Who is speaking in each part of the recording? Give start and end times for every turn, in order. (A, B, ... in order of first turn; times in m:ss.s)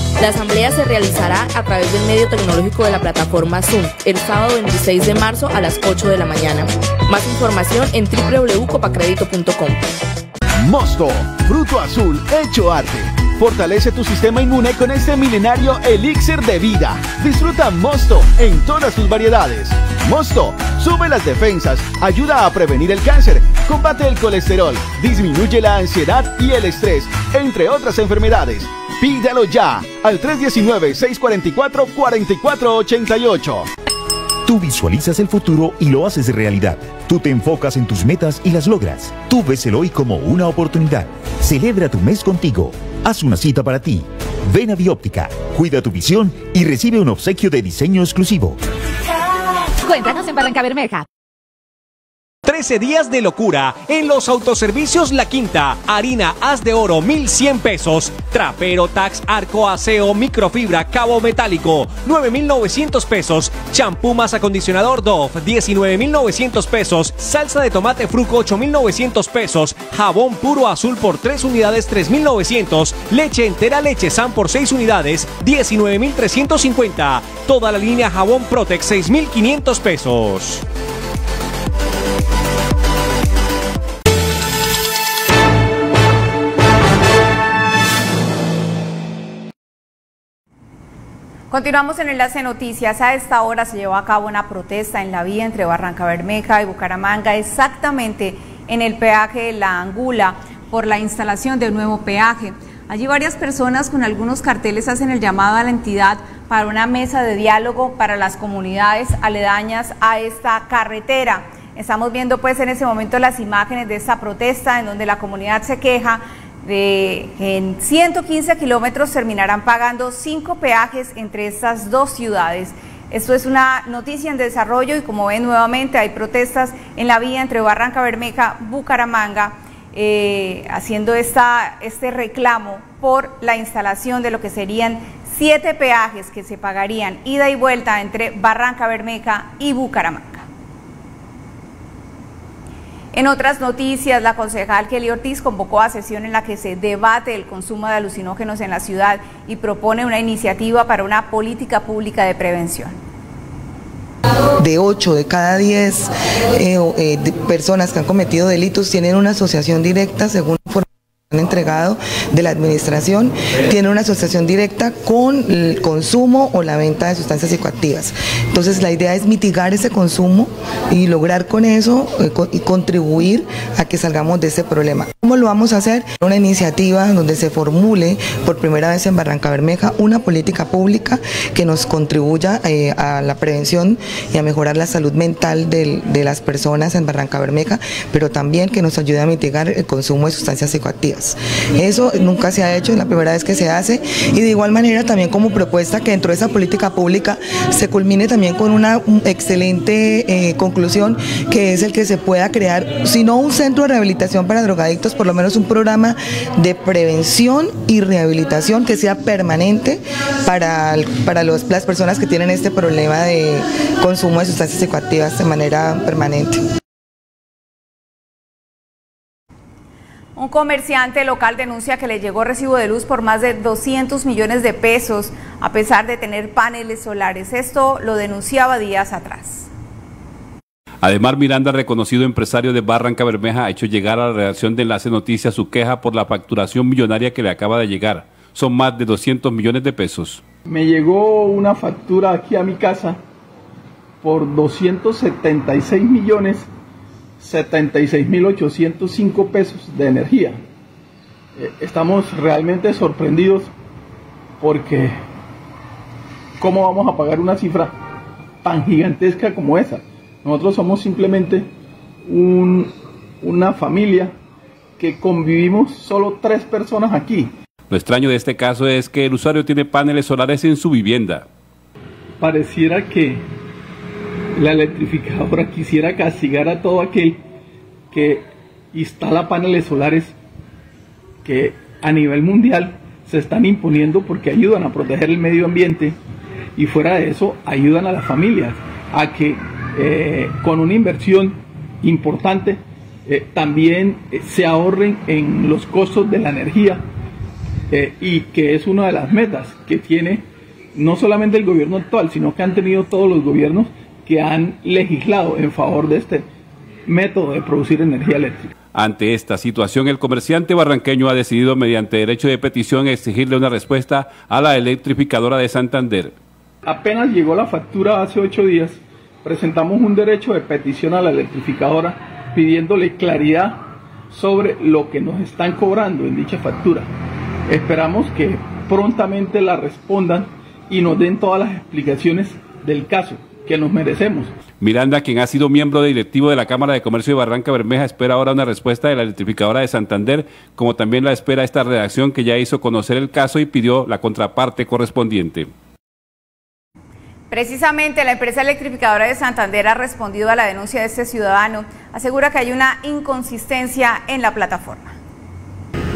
0:00.2-0:09.8 A
0:10.6-0:33.7 B
0:34.4-0:48.6 C
0:52.4-1:20.6 D
1:31.5-2:20.4 E
2:23.1-2:33.0 E
2:34.6-3:36.6 F
3:40.4-3:49.7 E
3:51.0-4:00.4 G
4:00.6-4:03.2 H
4:04.2-4:06.7 H
4:07.4-4:10.6 H
4:11.6-4:13.7 H
4:14.6-4:15.2 H
4:16.6-4:17.9 H
4:18.6-4:21.7 H
4:22.3-4:24.3 H
4:25.0-4:27.5 H
4:27.9-4:31.4 G
4:32.4-4:33.4 H
4:34.6-4:37.4 H
4:38.1-4:40.3 H
4:41.4-4:46.2 H
4:46.8-4:57.0 H
4:57.9-5:06.5 H
5:07.1-5:08.7 H
5:08.9-5:16.3 G
5:16.9-5:27.1 H
5:27.7-5:34.5 H
5:34.8-5:45.7 G
5:47.5-5:55.1 E